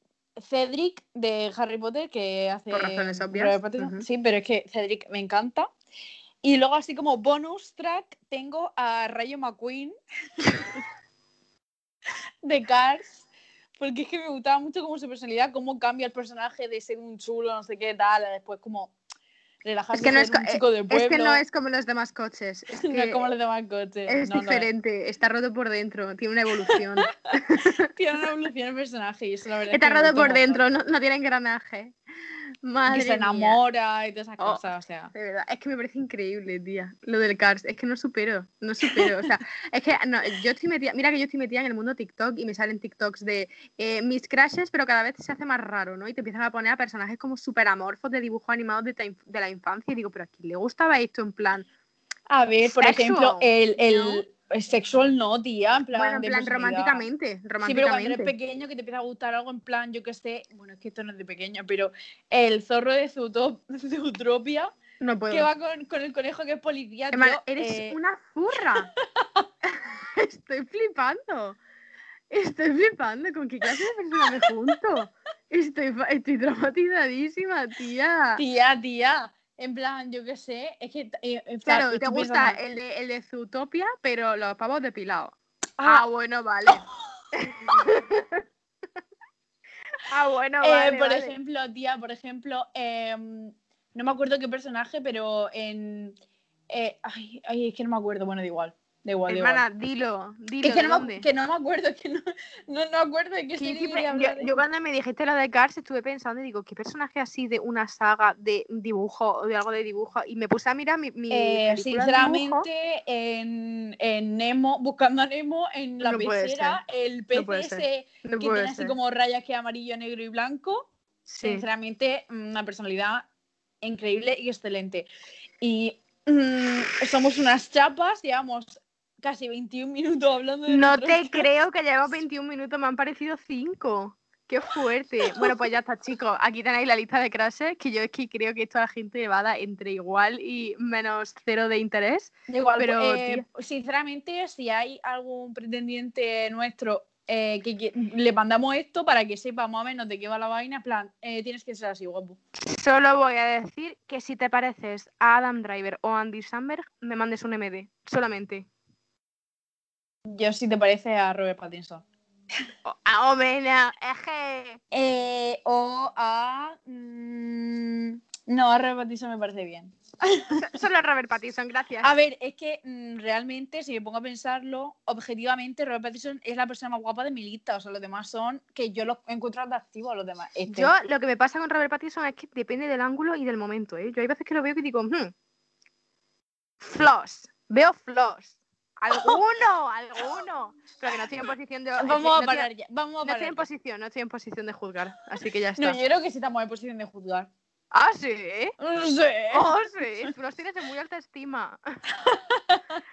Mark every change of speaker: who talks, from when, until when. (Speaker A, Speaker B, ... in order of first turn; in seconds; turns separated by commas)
Speaker A: 0.4-5.7, Speaker B: 2.7-4.1, Speaker A: 6.4-9.9, Speaker A: 12.4-13.2, Speaker A: 13.8-18.9, Speaker A: 19.6-21.4, Speaker B: 19.9-23.3, Speaker A: 22.8-24.7, Speaker B: 24.1-27.7, Speaker A: 27.6-30.6, Speaker B: 29.7-31.9, Speaker B: 32.6-33.6, Speaker A: 32.9-35.1, Speaker B: 34.4-51.7, Speaker A: 38.9-39.1, Speaker A: 52.3-57.0, Speaker B: 52.6-54.2, Speaker B: 55.9-58.3, Speaker A: 57.6-64.8, Speaker B: 65.0-65.5, Speaker A: 65.3-68.0, Speaker B: 67.1-68.9, Speaker A: 68.6-69.5, Speaker B: 69.8-71.6, Speaker B: 72.3-78.4, Speaker A: 74.3-74.7, Speaker A: 78.4-82.6, Speaker B: 81.7-88.4, Speaker A: 85.8-86.1, Speaker B: 90.1-91.3, Speaker A: 90.6-96.2, Speaker A: 96.7-99.6, Speaker B: 99.3-101.3, Speaker A: 100.6-104.6, Speaker B: 103.6-112.7, Speaker A: 111.3-123.3, Speaker B: 116.0-116.8, Speaker B: 117.3-119.0, Speaker B: 121.3-121.6, Speaker A: 123.8-125.1, Speaker A: 125.6-131.5, Speaker B: 130.7-143.4, Speaker A: 142.5-152.4, Speaker B: 152.6-158.7, Speaker A: 160.3-162.1, Speaker B: 162.8-164.8, Speaker A: 164.9-170.7, Speaker B: 170.5-172.1, Speaker A: 172.0-180.9, Speaker B: 180.7-185.3, Speaker B: 186.8-192.7, Speaker A: 192.0-193.7, Speaker B: 193.2-196.0, Speaker A: 195.8-197.5, Speaker B: 197.9-198.8, Speaker A: 198.8-199.7, Speaker B: 199.5-201.8, Speaker A: 202.2-203.0